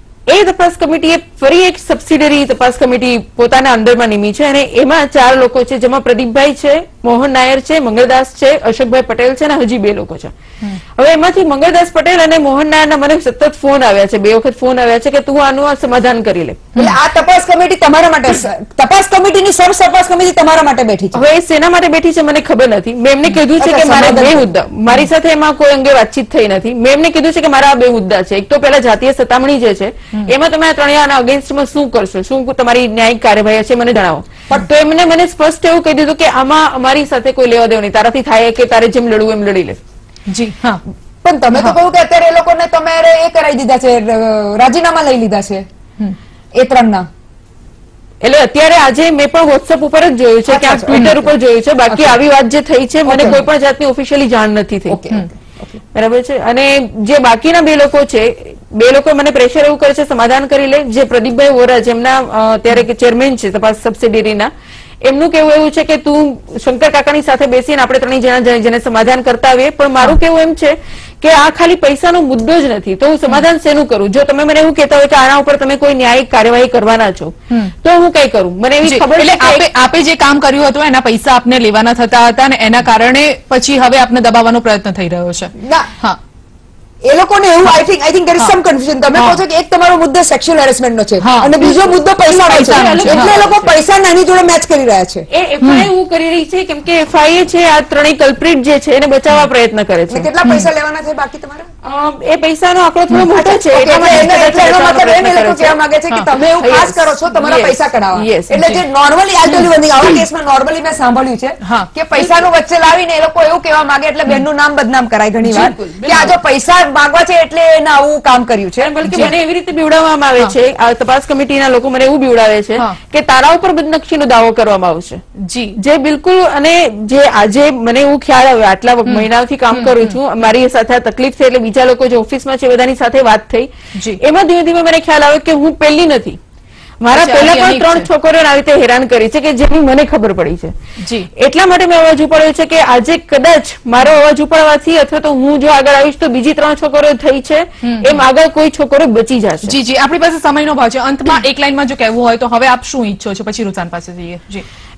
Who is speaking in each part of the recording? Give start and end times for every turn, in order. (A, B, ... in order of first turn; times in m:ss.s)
0:00.3-0:10.3 A
0:11.0-0:16.8 A
0:16.8-0:21.2 B
0:21.1-0:39.8 A
0:23.6-0:24.5 B
0:40.3-0:40.8 C
0:41.2-0:45.6 B
0:46.6-0:47.1 B
0:48.2-0:55.0 A
0:50.5-0:51.3 B
0:50.9-0:51.2 C
0:51.9-0:52.2 B
0:53.0-0:53.4 B
0:54.9-0:55.8 B
0:56.0-1:04.5 A
1:05.0-1:17.3 A
1:17.8-1:19.7 A
1:18.8-1:26.2 C
1:25.6-1:25.9 B
1:27.1-1:35.3 B
1:29.2-1:29.4 C
1:31.2-1:31.6 C
1:31.5-1:33.7 A
1:32.5-1:33.4 C
1:35.3-1:40.3 A
1:35.6-1:35.9 C
1:40.1-1:41.7 B
1:40.4-1:40.7 C
1:41.8-1:45.8 A
1:43.2-1:59.3 B
1:46.3-1:48.5 A
1:48.5-1:48.8 C
1:51.6-1:51.9 C
1:55.5-1:56.4 A
1:58.8-2:05.2 A
1:59.1-1:59.3 C
2:05.4-2:05.8 C
2:05.8-2:16.4 A
2:09.1-2:10.2 C
2:14.0-2:14.2 C
2:17.0-2:20.7 A
2:17.1-2:18.1 C
2:21.0-2:21.3 C
2:21.4-2:29.7 A
2:27.8-2:28.2 C
2:29.7-2:34.6 C